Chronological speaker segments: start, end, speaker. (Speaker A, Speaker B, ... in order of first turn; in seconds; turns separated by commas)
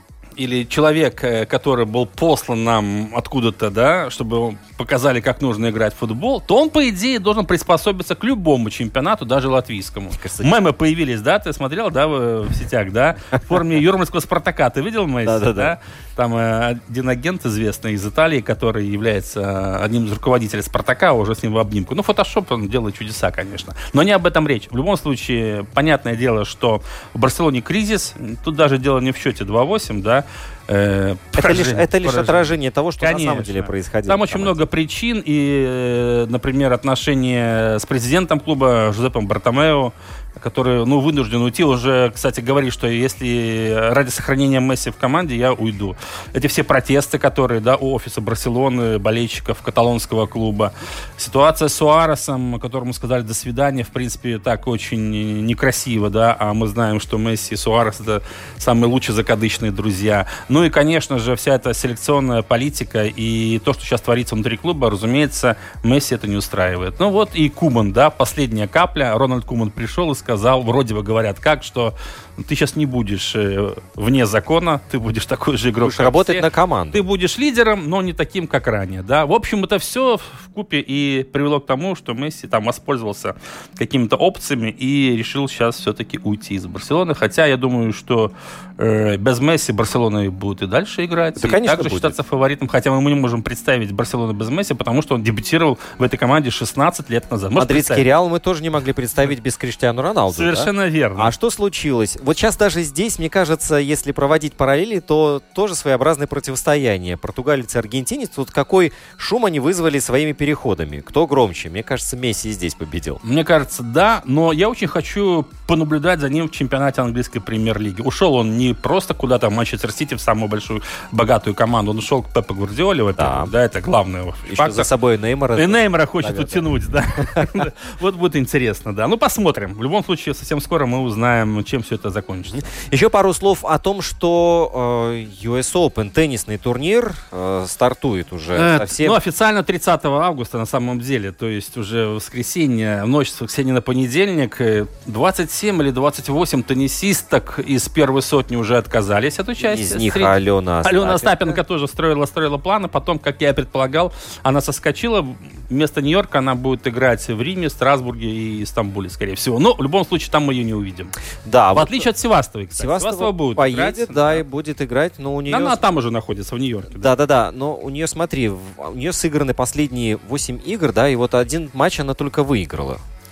Speaker A: 0.4-98.1, Speaker B: 10.1-10.5, Speaker B: 15.2-15.8, Speaker B: 31.4-34.6, Speaker B: 75.8-77.0, Speaker B: 91.4-92.2, Speaker B: 97.6-113.2, Speaker A: 100.3-101.3, Speaker A: 113.2-124.9, Speaker B: 123.2-123.5, Speaker B: 124.5-126.7, Speaker A: 125.6-132.6, Speaker B: 132.5-139.2, Speaker A: 138.6-161.1, Speaker B: 149.6-151.6, Speaker B: 161.4-162.1, Speaker A: 161.7-164.4, Speaker B: 162.8-165.8, Speaker A: 165.5-167.1, Speaker B: 166.9-173.0